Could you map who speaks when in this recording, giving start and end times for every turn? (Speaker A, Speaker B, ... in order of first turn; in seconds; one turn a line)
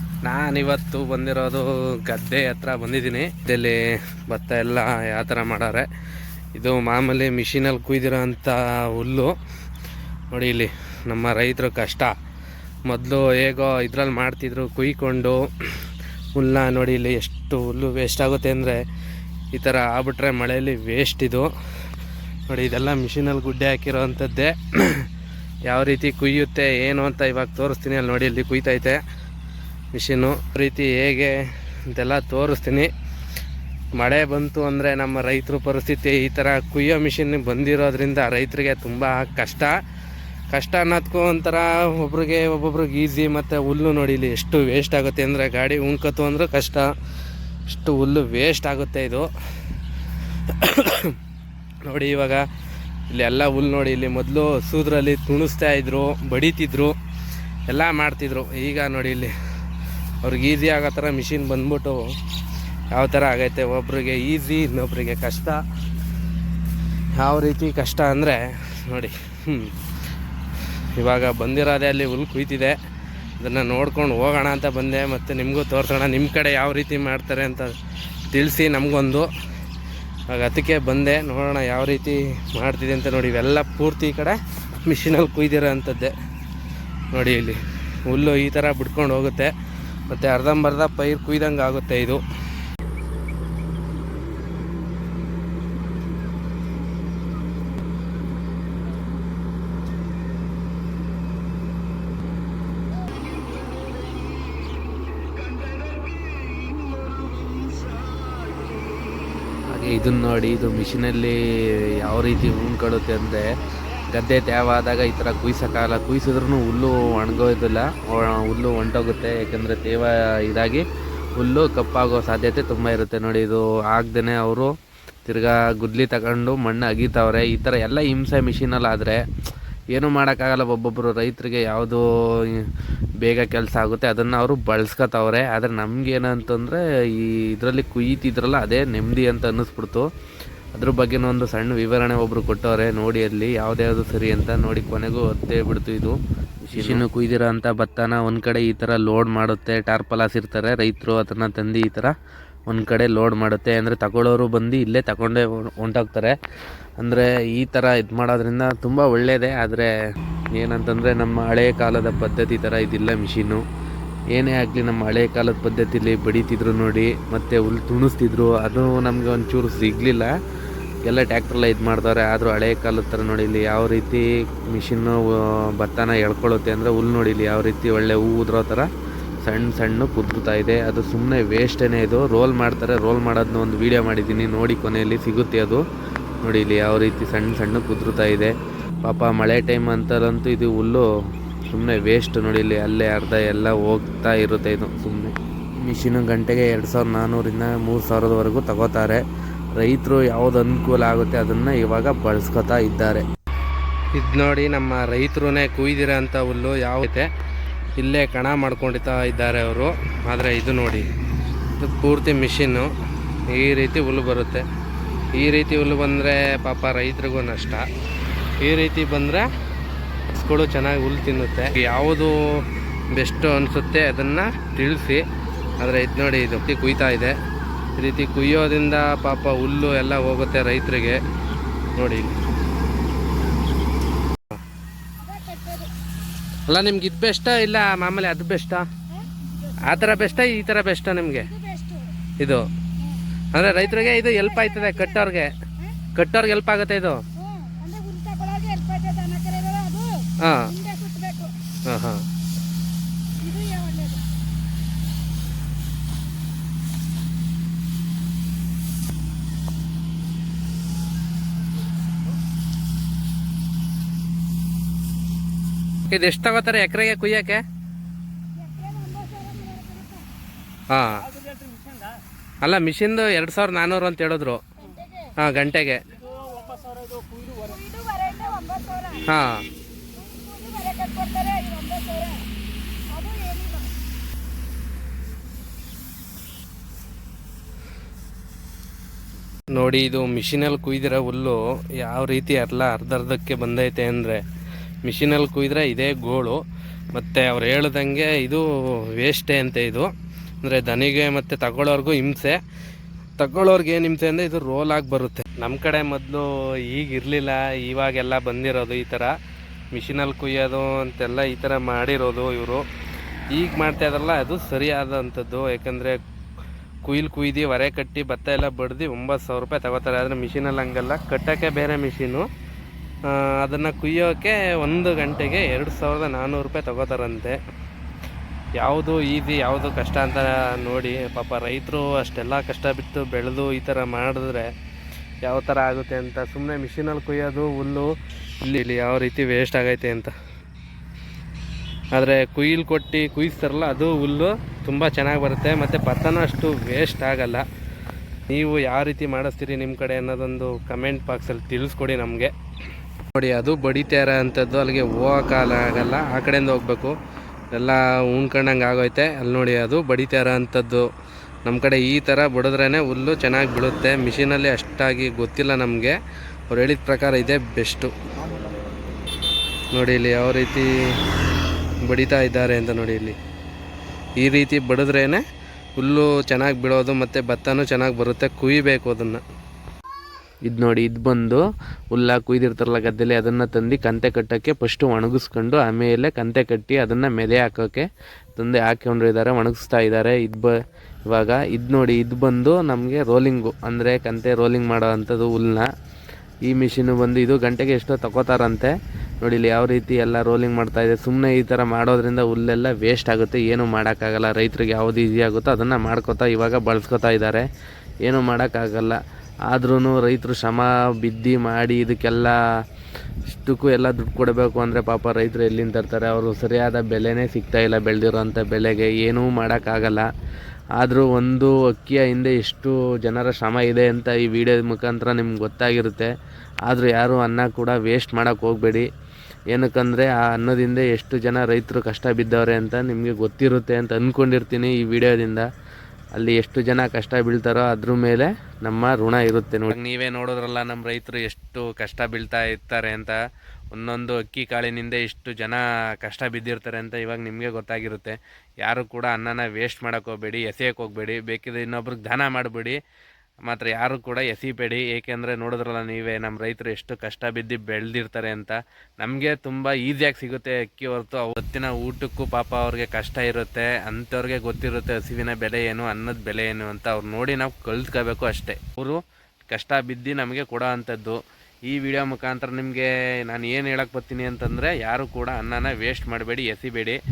Speaker A: 0.2-5.9
Speaker A: 6.5-9.3
Speaker A: 10.3-12.1
Speaker A: 12.9-18.8
Speaker A: 19.5-21.5
Speaker A: 22.5-25.1
Speaker A: 25.7-29.0
Speaker A: 29.9-32.9
Speaker A: 34.0-39.8
Speaker A: 40.5-46.9
Speaker A: 47.7-49.3
Speaker A: 50.5-51.2
Speaker A: 51.9-52.5
Speaker A: 53.1-57.0
Speaker A: 57.7-59.3
Speaker A: 60.2-62.1
Speaker A: 62.9-65.6
Speaker A: 67.2-69.8
Speaker A: 70.8-72.8
Speaker A: 73.4-77.7
Speaker A: 78.3-79.3
Speaker A: 80.3-86.1
Speaker A: 87.1-89.5
Speaker A: 90.1-92.2
Speaker A: 109.7-113.5
Speaker A: 114.1-120.8
Speaker A: 121.4-124.7
Speaker A: 125.3-129.2
Speaker A: 129.9-140.1
Speaker A: 140.8-146.2
Speaker A: 146.7-152.1
Speaker A: 152.7-156.4
Speaker A: 157.0-159.9
Speaker A: 160.6-163.6
Speaker A: 164.3-170.3
Speaker A: 171.1-178.9
Speaker A: 179.4-185.8
Speaker A: 186.4-188.5
Speaker A: 189.0-191.1
Speaker A: 191.7-199.2
Speaker A: 199.8-203.2
Speaker A: 204.2-207.3
Speaker A: 208.0-211.1
Speaker A: 211.8-212.9
Speaker A: 213.5-214.7
Speaker A: 215.4-217.9
Speaker A: 218.6-219.5
Speaker A: 220.3-225.2
Speaker A: 225.8-227.4
Speaker A: 228.0-231.2
Speaker A: 231.9-232.4
Speaker B: 235.2-235.9
Speaker A: 236.7-238.9
Speaker A: 239.8-241.5
Speaker B: 241.5-242.1
Speaker A: 242.4-242.7
Speaker A: 243.5-245.5
Speaker B: 244.0-245.1
Speaker A: 246.2-247.2
Speaker B: 247.4-251.7
Speaker A: 250.4-250.8
Speaker A: 251.9-252.2
Speaker B: 253.4-254.2
Speaker A: 266.1-267.6
Speaker B: 268.6-270.3
Speaker A: 270.9-271.3
Speaker A: 272.6-274.6
Speaker B: 274.9-275.3
Speaker A: 275.4-276.0
Speaker B: 276.4-279.2
Speaker A: 279.2-279.7
Speaker B: 280.2-282.5
Speaker B: 283.1-283.9
Speaker A: 289.8-294.4
Speaker A: 295.1-296.6
Speaker A: 297.1-300.1
Speaker A: 300.6-302.6
Speaker A: 303.4-309.4
Speaker A: 309.9-312.9
Speaker A: 313.5-316.2
Speaker A: 317.1-322.5
Speaker A: 323.2-327.6
Speaker A: 328.8-334.7
Speaker A: 335.4-340.3
Speaker A: 342.1-347.6
Speaker A: 348.5-352.5
Speaker A: 353.3-357.2
Speaker A: 357.7-361.1
Speaker A: 361.6-366.2
Speaker A: 366.7-368.1
Speaker A: 369.9-371.2
Speaker A: 372.1-373.4
Speaker A: 374.4-375.4
Speaker A: 376.0-379.4
Speaker A: 380.7-388.1
Speaker A: 388.6-390.7
Speaker A: 391.3-395.9
Speaker A: 396.7-407.6
Speaker A: 408.3-412.6
Speaker A: 413.5-420.3
Speaker A: 421.0-426.3
Speaker A: 426.9-429.1
Speaker A: 429.7-435.7
Speaker A: 436.4-443.4
Speaker A: 443.9-453.0
Speaker A: 453.7-477.2